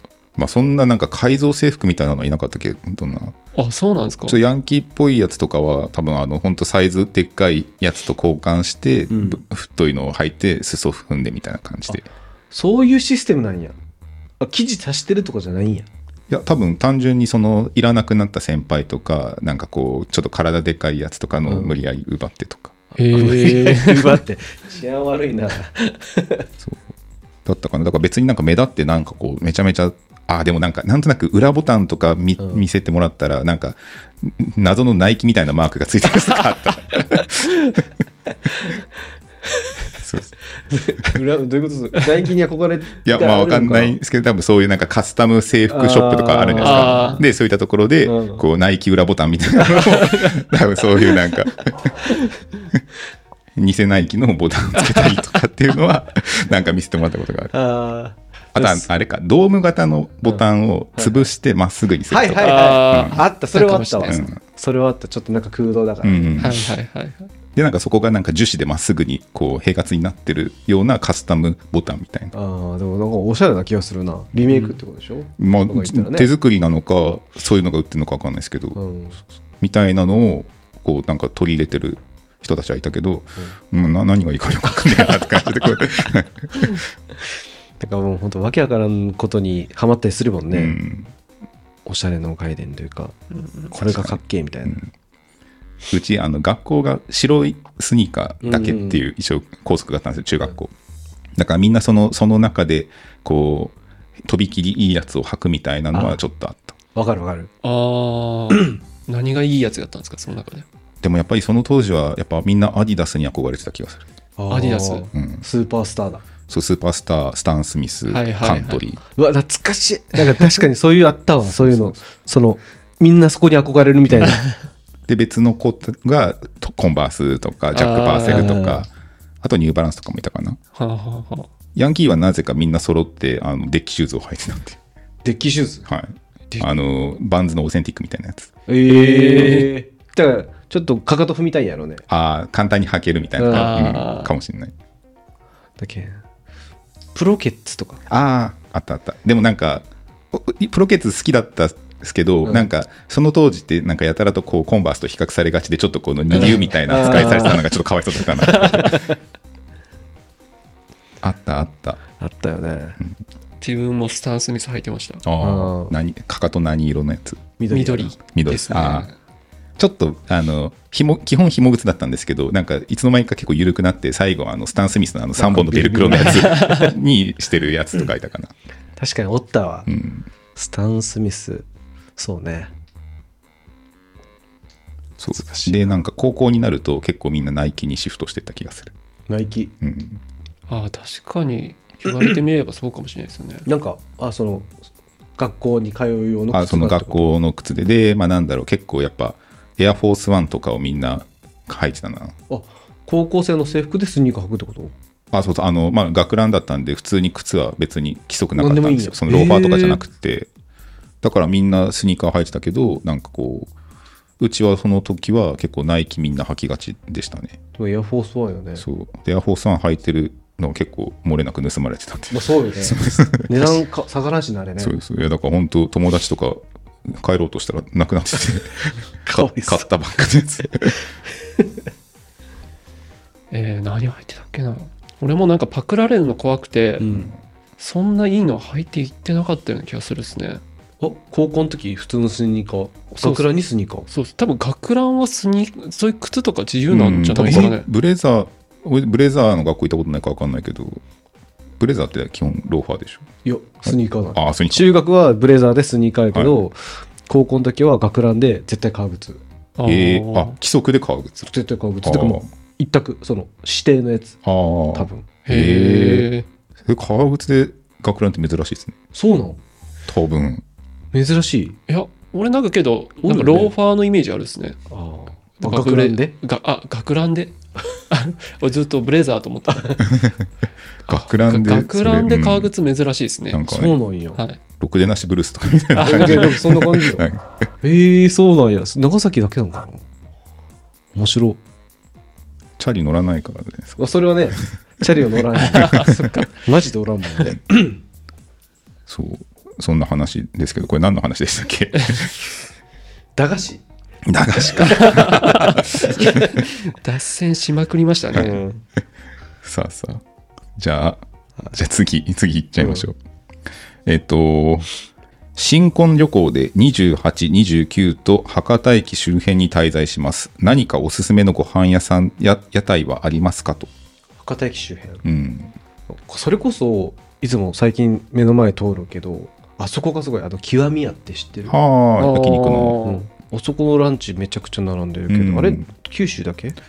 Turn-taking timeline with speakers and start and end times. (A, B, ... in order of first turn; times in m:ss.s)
0:00.4-0:03.4 A
0:03.5-0:04.4 B
0:04.3-0:12.1 A
0:09.1-0:09.4 C
0:12.5-0:13.8 C
0:14.4-0:15.9 C
0:16.3-0:22.8 A
0:21.4-0:21.8 C
0:23.0-0:24.2 B
0:23.0-0:26.5 C
0:26.6-0:26.9 A
0:27.4-0:37.5 A
0:40.0-0:40.3 A
0:40.7-0:43.9 C
0:43.0-0:52.1 A
0:45.7-0:47.2 C
0:46.6-0:47.2 B
0:48.0-0:48.4 C
0:53.6-0:57.5 A
0:54.8-0:55.3 B
0:57.5-0:58.8 C
0:58.5-1:03.2 A
1:00.2-1:01.3 C
1:02.1-1:06.5 C
1:02.4-1:04.3 B
1:04.1-1:04.4 A
1:06.0-1:06.6 A
1:06.4-1:07.3 B
1:07.5-1:12.3 A
1:12.3-1:16.3 C
1:15.4-1:18.8 A
1:18.7-1:19.2 C
1:19.6-1:26.8 A
1:27.8-1:30.8 C
1:30.5-1:31.1 A
1:31.8-1:33.2 C
1:33.3-1:33.7 B
1:33.7-1:34.8 C
1:33.8-1:34.9 A
1:35.9-1:40.7 A
1:38.4-1:39.0 C
1:41.4-1:46.8 A
1:45.9-1:46.2 C
1:46.9-1:47.5 C
1:47.6-1:50.6 B
1:51.0-1:54.0 A
1:54.4-1:56.2 C
1:54.5-1:55.0 B
1:55.1-1:55.4 A
1:56.5-1:59.0 A
1:58.1-1:58.8 B
1:59.2-2:04.4 C
2:01.5-2:02.0 A
2:04.1-2:04.4 A
2:05.1-2:08.9 A
2:07.7-2:08.6 B
2:08.3-2:08.8 C
2:09.4-2:10.6 A
2:10.7-2:11.5 B
2:11.7-2:14.8 A
2:15.2-2:15.8 C
2:15.8-2:18.5 A
2:18.7-2:22.0 C
2:18.9-2:19.7 B
2:22.1-2:24.7 A
2:23.4-2:23.7 C
2:23.5-2:24.3 B
2:25.8-2:26.2 C
2:27.1-2:28.0 C
2:28.1-2:39.0 A
2:36.3-2:37.6 C
2:36.4-2:37.6 B
2:38.4-2:39.0 B
2:41.2-2:42.0 A
2:42.2-2:43.0 C
2:43.6-2:45.2 B
2:45.2-2:47.5 A
2:45.4-2:45.9 C
2:47.6-2:48.1 C
2:47.7-2:49.1 B
2:48.2-2:49.1 A
2:49.8-2:58.5 A
2:55.4-2:56.9 C
2:56.2-2:56.9 B
2:59.0-2:59.9 C
2:59.9-3:00.2 A
3:00.6-3:02.7 C
3:05.2-3:08.9 A
3:05.3-3:05.9 C
3:09.3-3:09.7 C
3:09.8-3:10.2 A
3:10.7-3:13.6 B
3:13.6-3:14.7 C
3:15.4-3:17.3 C
3:16.5-3:22.4 A
3:22.5-3:24.9 C
3:25.3-3:30.5 A
3:28.6-3:30.0 C
3:31.2-3:33.7 A
3:34.4-3:37.6 A
3:37.8-3:38.8 C
3:38.8-3:43.7 A
3:42.3-3:44.9 C
3:44.8-3:51.1 A
3:49.2-3:49.9 C
3:53.5-3:57.2 B
3:57.0-3:57.3 C
3:57.8-4:00.6 B
4:01.0-4:04.1 C
4:04.1-4:07.8 B
4:06.9-4:11.0 A
4:11.8-4:13.3 A
4:13.4-4:19.4 C
4:13.8-4:14.8 A
4:19.8-4:20.5 B
4:19.8-4:21.5 A
4:21.4-4:24.4 C
4:22.0-4:22.5 A
4:24.4-4:26.3 A
4:24.9-4:25.3 C
4:25.4-4:26.5 B
4:26.8-4:29.0 A
4:29.1-4:29.6 C
4:30.1-4:30.6 A
4:31.1-4:31.8 C
4:31.9-4:34.8 B
4:33.2-4:33.7 C
4:34.9-4:36.3 C
4:35.6-4:37.6 B
4:38.1-4:40.3 B
4:40.0-4:40.4 A
4:41.1-4:42.7 A
4:41.1-4:43.7 B
4:43.5-4:44.0 A
4:43.6-4:44.4 C
4:44.8-4:47.7 A
4:46.0-4:46.6 B
4:46.0-4:47.3 C
4:47.8-4:50.0 C
4:51.1-4:51.6 C
4:52.8-4:54.0 A
4:54.0-4:58.0 C
4:55.7-4:56.5 B
4:55.8-4:56.2 A
4:59.1-5:02.4 A
5:03.4-5:03.8 C
5:04.2-5:06.4 A
5:04.6-5:06.6 C
5:04.8-5:08.6 B
5:08.3-5:08.8 C
5:09.6-5:10.2 A
5:10.8-5:13.2 A
5:12.8-5:13.0 C
5:14.0-5:14.9 A
5:15.5-5:23.9 A
5:24.4-5:25.2 C
5:25.2-5:25.7 A
5:26.1-5:31.7 C
5:31.7-5:33.0 A
5:32.2-5:33.2 B
5:33.0-5:36.8 C
5:35.3-5:35.9 A